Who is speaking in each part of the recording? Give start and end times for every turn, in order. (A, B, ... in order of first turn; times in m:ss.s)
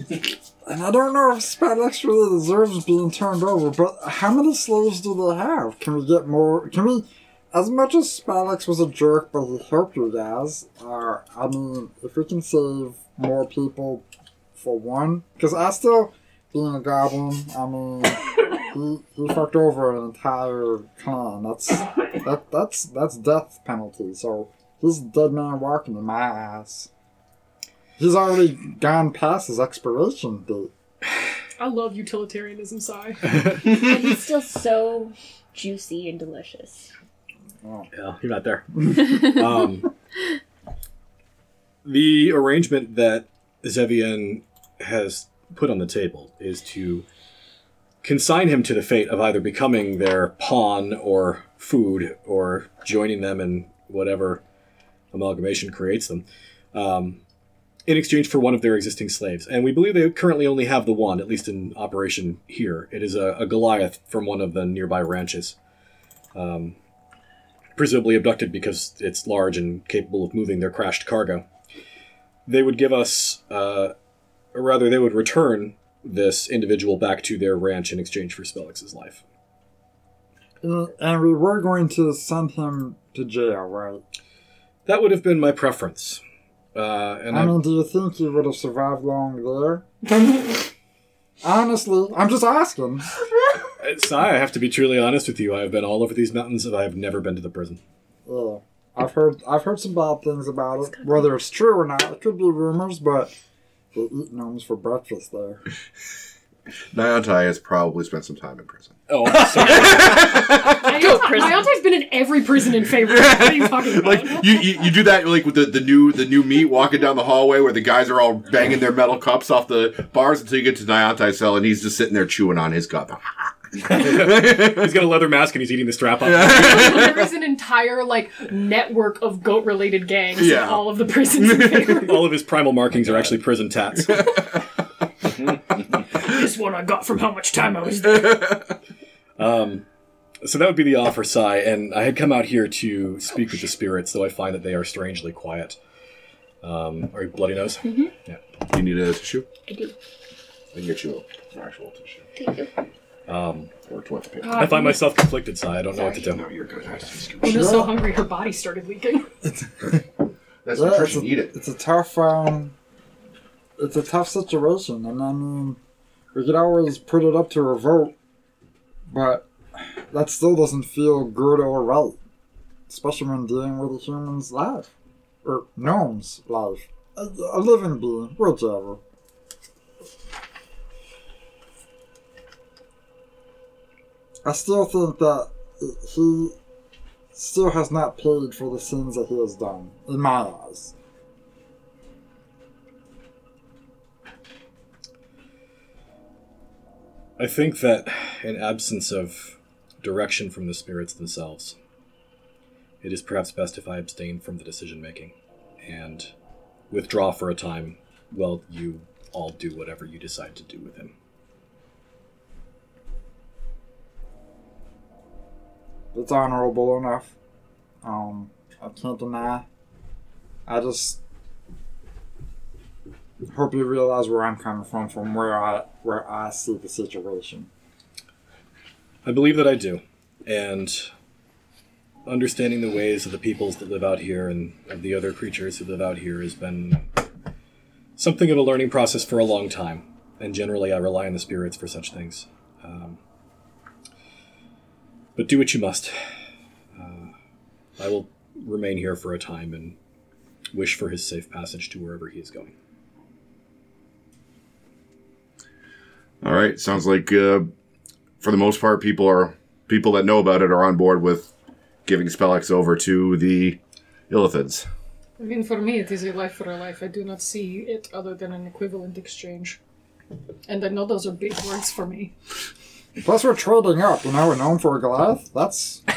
0:00.6-0:14.0 A
0:14.6-0:26.9 A
0:28.0-0:30.7 A
0:31.6-0:33.4 B
0:33.2-0:33.6 C
0:33.6-0:36.9 D
0:37.9-0:39.9 C
0:41.8-0:47.0 C
0:48.0-0:54.4 C
0:55.1-0:57.2 C
0:57.9-1:05.6 C
1:06.3-1:06.8 C
1:07.8-1:11.4 C
1:12.4-1:13.9 C
1:14.5-1:19.2 C
1:20.6-1:24.0 A
1:24.8-1:26.2 C
1:26.7-1:27.6 C
1:27.3-1:30.6 A
1:31.4-1:33.1 A
1:33.8-1:37.8 C
1:38.2-1:43.3 A
1:41.0-1:41.2 D
1:43.9-1:45.6 A
1:46.9-1:50.9 E
1:49.1-1:50.6 C
1:49.5-1:51.7 D
1:50.8-1:54.6 B
1:53.0-2:04.9 E
2:03.9-2:07.1 C
2:06.2-2:07.2 E
2:06.4-2:12.4 B
2:10.4-2:12.1 E
2:11.9-2:14.4 C
2:14.1-2:14.4 E
2:16.1-2:18.4 B
2:18.0-2:18.7 E
2:19.4-2:19.8 C
2:20.4-2:25.8 C
2:26.6-2:28.4 C
2:27.8-2:28.1 D
2:28.7-2:29.4 E
2:29.7-2:29.9 D
2:30.7-2:32.2 E
2:32.4-2:32.7 D
2:33.3-2:33.7 C
2:33.8-2:34.8 E
2:34.4-2:35.1 D
2:34.5-2:36.4 C
2:35.9-2:36.3 D
2:36.3-2:37.8 E
2:37.4-2:39.3 B
2:37.4-2:37.9 A
2:39.4-2:40.0 A
2:40.6-2:41.5 E
2:40.7-2:42.7 A
2:43.8-2:45.8 A
2:46.3-2:48.1 A
2:49.1-2:52.2 A
2:52.9-2:54.9 A
2:55.4-2:59.0 A
3:04.4-3:06.6 A
3:07.3-3:10.9 A
3:17.4-3:21.8 C
3:23.0-3:25.3 C
3:25.8-3:26.3 C
3:26.9-3:31.1 C
3:36.1-3:37.3 A
3:38.0-3:39.6 A
3:40.7-3:41.2 A
3:43.5-3:47.7 A
3:49.2-3:51.1 C
3:52.2-3:57.0 C
3:58.2-4:03.2 C
4:05.4-4:06.1 C
4:07.0-4:07.3 C
4:08.0-4:10.0 C
4:10.7-4:12.7 C
4:16.4-4:17.7 E
4:18.4-4:21.5 E
4:22.0-4:23.8 E
4:24.3-4:24.9 E
4:25.4-4:29.8 B
4:30.7-4:32.3 B
4:33.2-4:36.0 A